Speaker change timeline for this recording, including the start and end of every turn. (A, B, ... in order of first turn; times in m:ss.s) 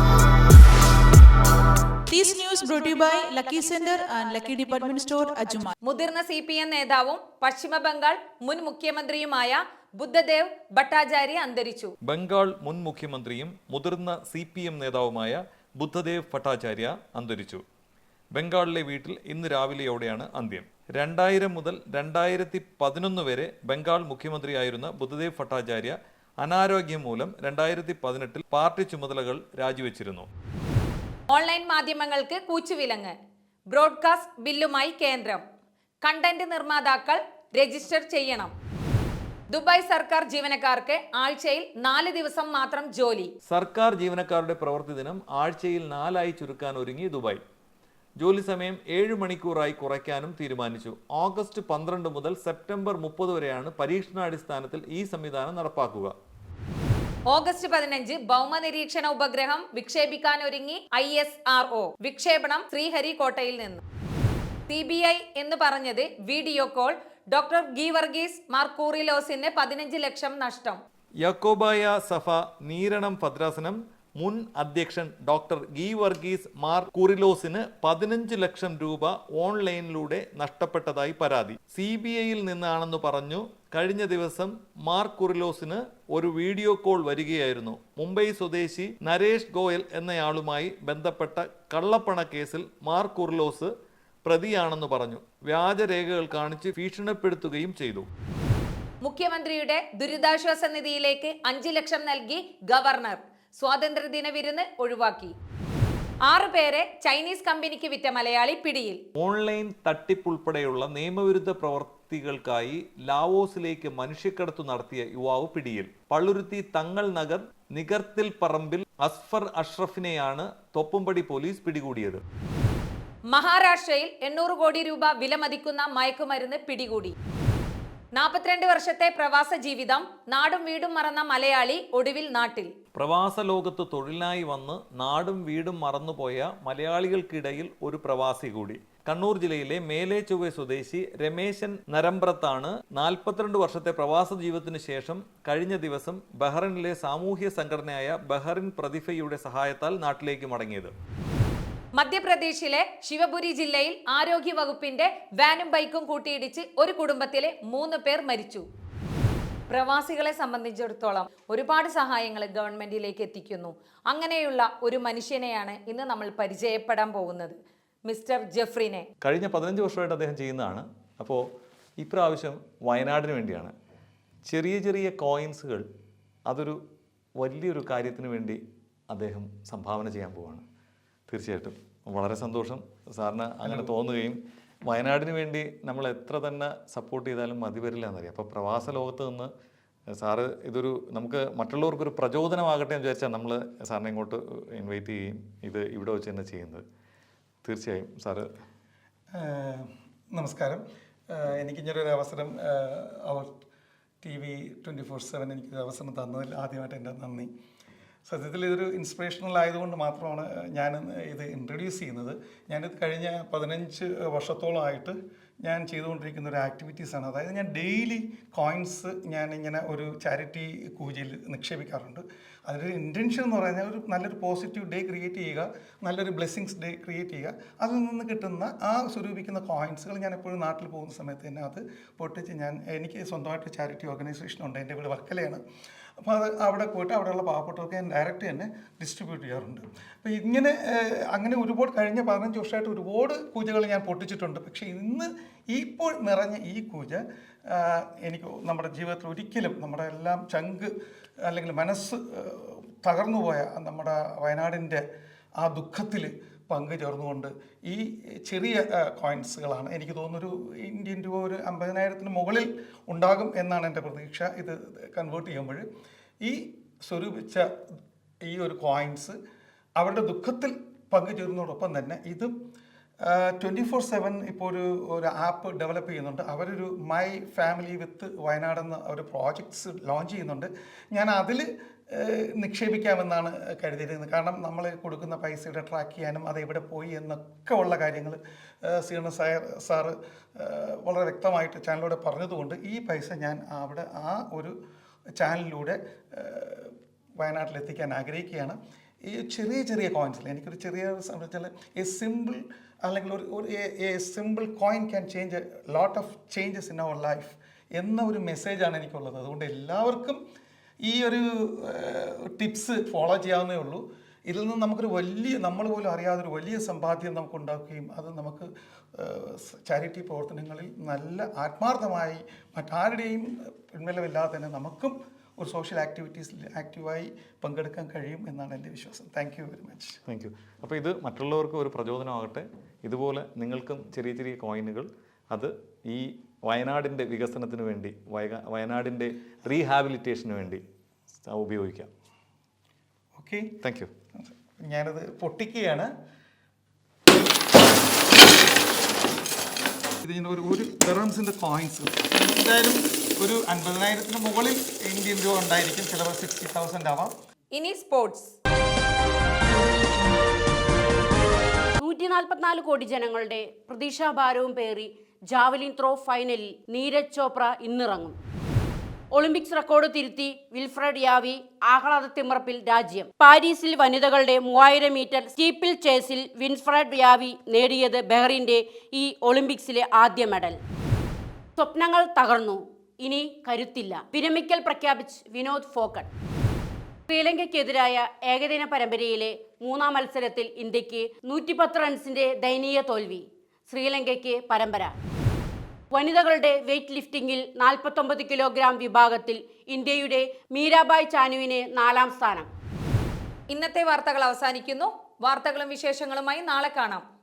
0:02.1-0:05.7 A
0:05.8-0:11.9 B
0:12.0-0:17.6 C
0:18.3-0:30.3 C
0:31.3-0:33.2 B
0:33.7-0:35.4 B
0:36.0-0:38.5 B
0:39.5-0:43.3 B
0:43.4-0:47.4 C
0:48.2-0:56.1 C
0:57.3-1:03.8 B
1:04.7-1:10.8 B
1:11.2-1:33.7 C
1:34.2-1:38.1 C
1:39.0-1:45.3 B
1:46.2-1:49.0 B
1:49.2-2:02.2 C
2:03.3-2:07.1 B
2:08.1-2:12.7 B
2:12.9-2:30.9 C
2:32.0-2:38.6 B
2:39.7-2:49.1 B
2:49.2-2:51.4 C
2:52.0-2:53.7 C
2:54.4-2:55.9 C
2:56.4-2:56.8 C
2:57.4-3:00.6 C
3:01.3-3:09.5 C
3:03.6-3:03.9 D
3:10.1-3:16.8 C
3:17.6-3:18.5 C
3:19.4-3:23.5 D
3:24.2-3:27.5 D
3:28.2-3:55.6 D
3:56.2-4:10.9 D
4:11.4-4:15.0 D
4:15.6-4:25.8 D
4:26.4-4:27.7 D
4:28.4-4:29.4 D
4:30.0-4:32.5 D
4:33.2-4:54.7 D
4:55.4-5:10.4 D
5:11.0-5:30.2 D
5:30.3-5:40.8 C
5:41.4-5:42.1 C
5:43.4-5:43.7 D
5:43.8-5:44.1 C
5:44.4-5:46.1 D
5:50.2-5:57.3 D
5:57.7-5:58.6 B
6:02.0-6:08.4 E
6:09.3-6:20.8 E
6:21.8-6:26.3 E
6:27.3-6:35.1 E
6:36.1-6:42.7 E
6:43.7-6:47.2 B